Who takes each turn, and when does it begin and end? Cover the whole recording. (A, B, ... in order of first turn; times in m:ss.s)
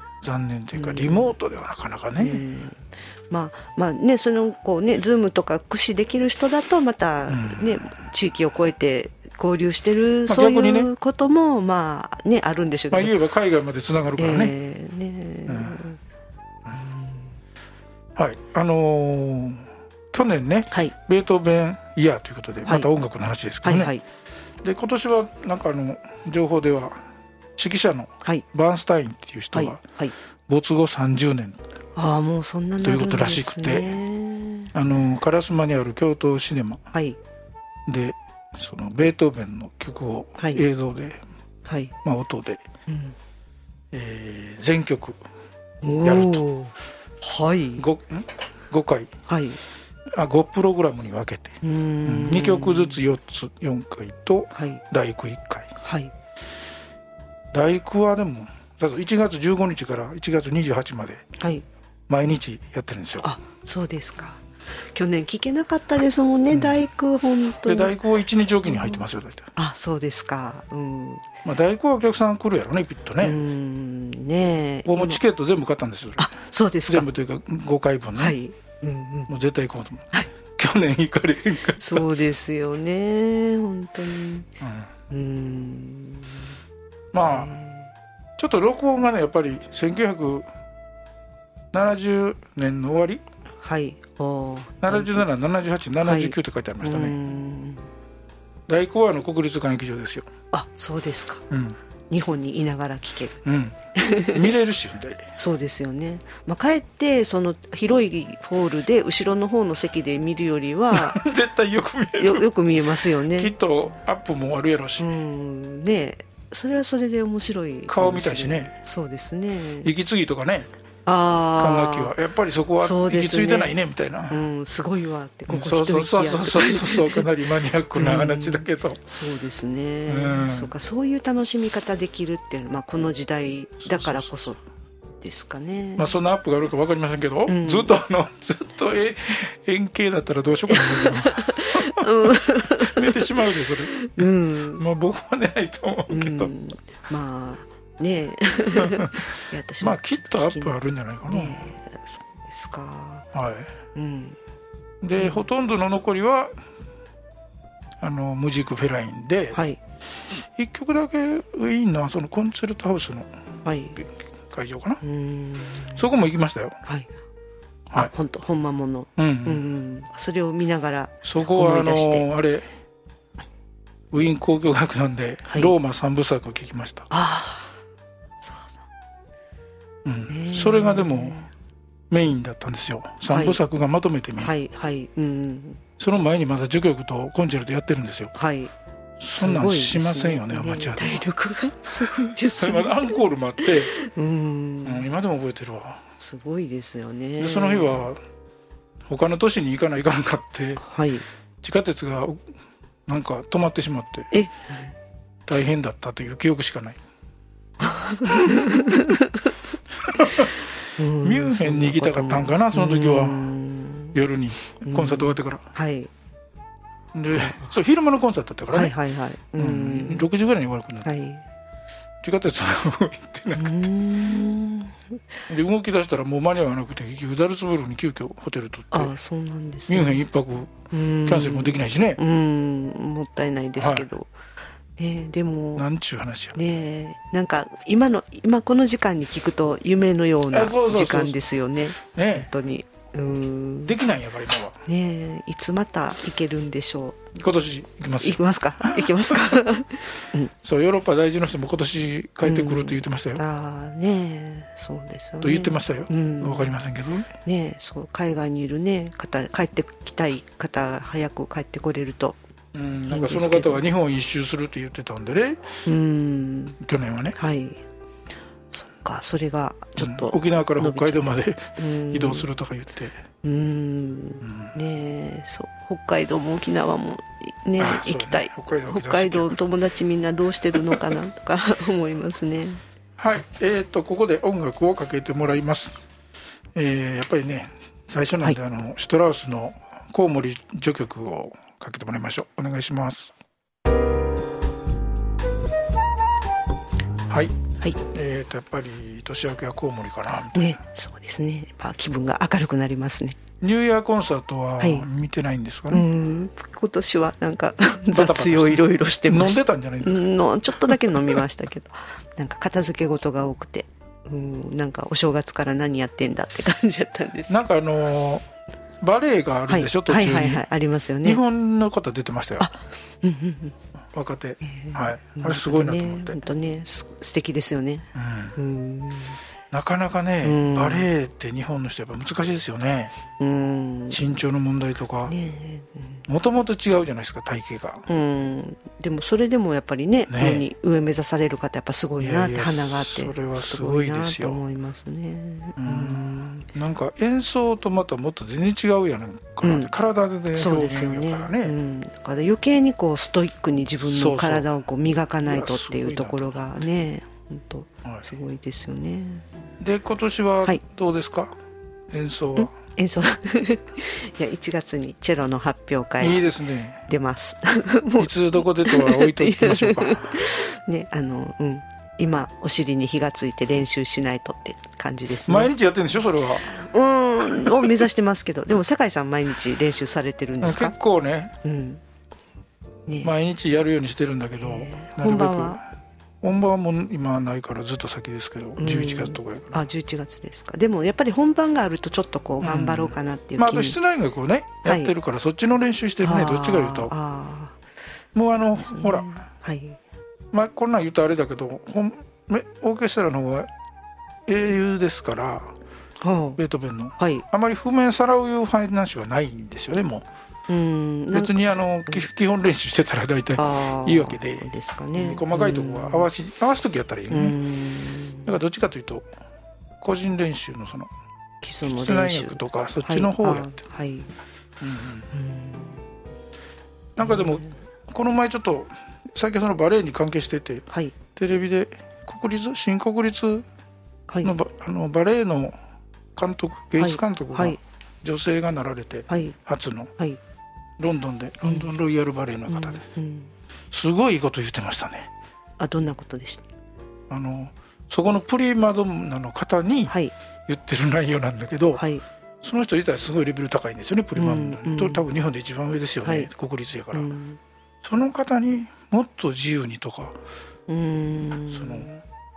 0:00.2-0:02.4 A
0:00.7-0:01.4 B
0:02.2-0:13.2 B
0:07.3-0:07.7 A
0:10.3-0:10.9 A
0:12.9-0:14.6 A
0:14.2-0:16.0 B
0:15.5-0:15.8 A
0:16.7-0:17.3 B
0:18.2-0:24.0 A
0:20.7-0:21.0 B
0:22.6-0:22.9 B
0:23.6-0:24.0 B
0:24.6-0:29.8 A
0:29.5-0:30.2 B
0:30.5-0:31.6 A
0:32.0-0:34.7 B
0:32.8-0:34.0 A
0:34.7-0:36.8 A
0:36.9-0:37.2 B
0:37.9-0:41.2 A
0:40.4-0:40.6 B
0:41.7-0:41.9 B
0:42.0-0:42.6 A
0:42.9-0:43.2 B
0:43.9-0:45.2 A
0:45.8-0:47.9 B
0:46.0-0:46.4 A
0:47.8-0:49.1 A
0:49.3-0:49.6 B
0:50.1-0:55.7 A
0:51.6-0:53.0 B
0:54.5-0:54.8 B
0:55.8-0:56.1 B
0:57.5-1:01.2 A
1:01.4-1:01.7 B
1:02.1-1:03.3 A
1:03.2-1:04.4 B
1:04.9-1:08.0 B
1:06.5-1:06.8 A
1:07.6-1:09.5 A
1:08.6-1:09.0 B
1:09.6-1:11.3 B
1:11.4-1:13.4 A
1:13.2-1:15.2 B
1:14.9-1:16.3 A
1:16.2-1:17.1 B
1:16.9-1:18.4 A
1:18.2-1:19.3 B
1:19.3-1:22.4 A
1:21.8-1:24.5 B
1:24.6-1:24.9 A
1:25.1-1:26.5 B
1:27.1-1:27.5 A
1:27.2-1:27.9 B
1:28.4-1:30.5 A
1:31.7-1:33.2 A
1:33.6-1:35.3 B
1:34.8-1:37.2 A
1:36.0-1:37.9 B
1:38.7-1:40.3 A
1:40.5-1:41.4 B
1:41.5-1:41.8 A
1:42.1-1:43.4 B
1:43.4-1:45.3 A
1:44.0-1:44.5 B
1:45.4-1:51.2 B
1:50.9-1:52.5 A
1:52.2-1:53.5 B
1:53.3-1:55.1 A
1:55.0-1:59.9 B
1:57.9-1:58.8 A
1:59.8-2:00.7 A
2:01.0-2:02.2 B
2:01.6-2:04.4 A
2:02.8-2:03.7 B
2:04.3-2:07.3 B
2:05.5-2:09.0 A
2:08.0-2:14.6 B
2:10.1-2:10.7 A
2:13.8-2:14.3 A
2:15.2-2:16.1 B
2:16.0-2:22.1 A
2:17.5-2:18.0 B
2:20.7-2:24.8 B
2:22.7-2:26.5 A
2:26.1-2:33.3 B
2:28.9-2:29.2 A
2:29.8-2:31.6 A
2:33.3-2:33.7 A
2:34.0-2:34.4 B
2:35.0-2:36.6 A
2:35.2-2:35.5 B
2:38.0-2:39.6 A
2:39.5-2:39.8 B
2:40.6-2:43.3 A
2:43.6-2:44.0 B
2:44.0-2:45.0 A
2:45.0-2:46.1 B
2:46.0-2:46.8 A
2:48.0-2:52.3 B
2:49.2-2:49.6 A
2:51.2-2:52.7 A
2:54.1-2:57.1 A
2:55.5-2:55.8 B
2:57.1-2:57.8 B
2:58.4-2:58.8 B
3:00.0-3:01.4 A
3:00.3-3:01.5 B
3:02.1-3:04.5 A
3:03.3-3:03.6 B
3:04.4-3:05.8 B
3:06.0-3:08.3 A
3:08.4-3:08.7 B
3:09.2-3:11.3 A
3:09.4-3:15.1 B
3:12.2-3:13.9 A
3:14.8-3:16.0 A
3:16.2-3:18.0 B
3:17.4-3:18.2 A
3:19.1-3:20.8 A
3:20.8-3:21.3 B
3:21.6-3:22.5 A
3:23.1-3:24.3 A
3:24.3-3:24.9 B
3:25.5-3:27.0 A
3:27.8-3:29.4 B
3:28.3-3:28.6 A
3:30.1-3:30.5 A
3:31.0-3:34.2 B
3:31.2-3:33.5 A
3:34.1-3:35.7 A
3:34.8-3:36.1 B
3:37.1-3:39.0 A
3:38.7-3:40.3 B
3:39.6-3:41.1 A
3:41.0-3:41.4 B
3:42.2-3:43.9 A
3:43.6-3:45.2 B
3:45.5-3:49.2 A
3:48.9-3:50.2 B
3:49.9-3:52.2 A
3:50.9-3:54.3 B
3:53.8-3:54.1 A
3:55.0-3:55.9 B
3:55.8-3:56.6 A
3:56.6-4:04.0 B
4:00.5-4:01.4 A
4:02.2-4:02.5 A
4:03.9-4:04.8 A
4:04.9-4:07.4 B
4:07.4-4:09.4 A
4:08.2-4:10.5 B
4:10.6-4:13.4 A
4:12.4-4:16.8 B
4:15.4-4:17.3 A
4:17.4-4:22.4 B
4:22.7-4:25.8 A
4:23.1-4:23.8 B
4:25.8-4:26.8 B
4:26.8-4:27.4 A
4:27.4-4:27.8 B
4:28.7-4:32.5 B
4:30.0-4:33.2 A
4:33.4-4:42.8 B
4:34.4-4:34.8 A
4:37.8-4:39.6 A
4:43.2-4:46.0 A
4:46.8-4:53.3 A
4:57.3-5:00.8 A
5:00.5-5:03.4 B
5:03.6-5:06.1 A
5:04.8-5:05.1 B
5:05.9-5:17.6 B
5:08.1-5:11.4 A
5:17.5-5:18.5 A
5:19.0-5:20.7 A
5:19.7-5:21.4 B
5:21.2-5:22.7 A
5:22.6-5:23.8 B
5:24.1-5:26.4 A
5:24.6-5:29.4 B
5:28.2-5:28.6 A
5:29.7-5:33.2 A
5:30.4-5:31.1 B
5:33.4-5:34.2 B
5:34.1-5:35.4 A
5:35.3-5:36.3 B
5:36.3-5:38.1 A
5:38.1-5:46.7 B
5:40.3-5:40.7 A
5:42.2-5:44.6 A
5:45.8-5:51.8 A
5:49.6-5:49.9 B
5:50.5-5:59.4 B
5:54.1-5:54.7 A
5:55.4-5:56.6 A
5:59.8-6:01.6 A
6:02.1-6:02.7 A
6:02.6-6:06.4 B
6:06.2-6:07.0 A
6:07.1-6:15.7 B
6:08.2-6:10.5 A
6:15.5-6:16.7 A
6:16.6-6:21.0 B
6:17.6-6:18.0 A
6:20.6-6:21.6 A
6:21.6-6:22.0 B
6:23.1-6:23.3 B
6:23.2-6:25.9 A
6:24.6-6:25.8 B
6:26.4-6:29.8 A
6:28.8-6:34.0 B
6:32.6-6:37.1 A
6:34.8-6:35.1 B
6:36.2-6:37.8 B
6:38.3-6:39.4 A
6:38.8-6:40.0 B
6:40.5-6:43.7 A
6:44.5-6:45.8 A
6:46.2-6:46.6 B
6:46.6-6:50.3 A
6:47.2-6:47.4 B
6:50.7-6:52.3 B
6:51.3-6:57.6 A
6:53.6-6:56.3 B
6:57.3-6:58.6 B
6:58.5-6:59.3 A
7:00.0-7:01.1 A
7:01.6-7:04.3 B
7:01.8-7:03.8 A
7:04.8-7:05.3 A
7:05.3-7:06.0 B
7:07.2-7:13.7 A
7:07.2-7:07.7 B
7:14.3-7:14.6 B
7:14.4-7:15.8 A
7:16.4-7:20.1 A
7:17.0-7:17.8 B
7:19.3-7:19.6 B
7:21.0-7:23.0 A
7:21.6-7:21.9 B
7:22.7-7:23.5 B
7:23.9-7:25.3 A
7:25.8-7:26.7 B
7:27.3-7:30.1 A
7:30.1-7:30.3 B
7:30.7-7:32.0 A
7:32.0-7:32.2 B
7:32.6-7:37.3 A
7:34.4-7:35.3 B
7:36.2-7:36.5 B
7:37.1-7:37.6 B
7:38.0-7:40.4 A
7:40.9-7:42.2 B
7:41.7-7:42.1 A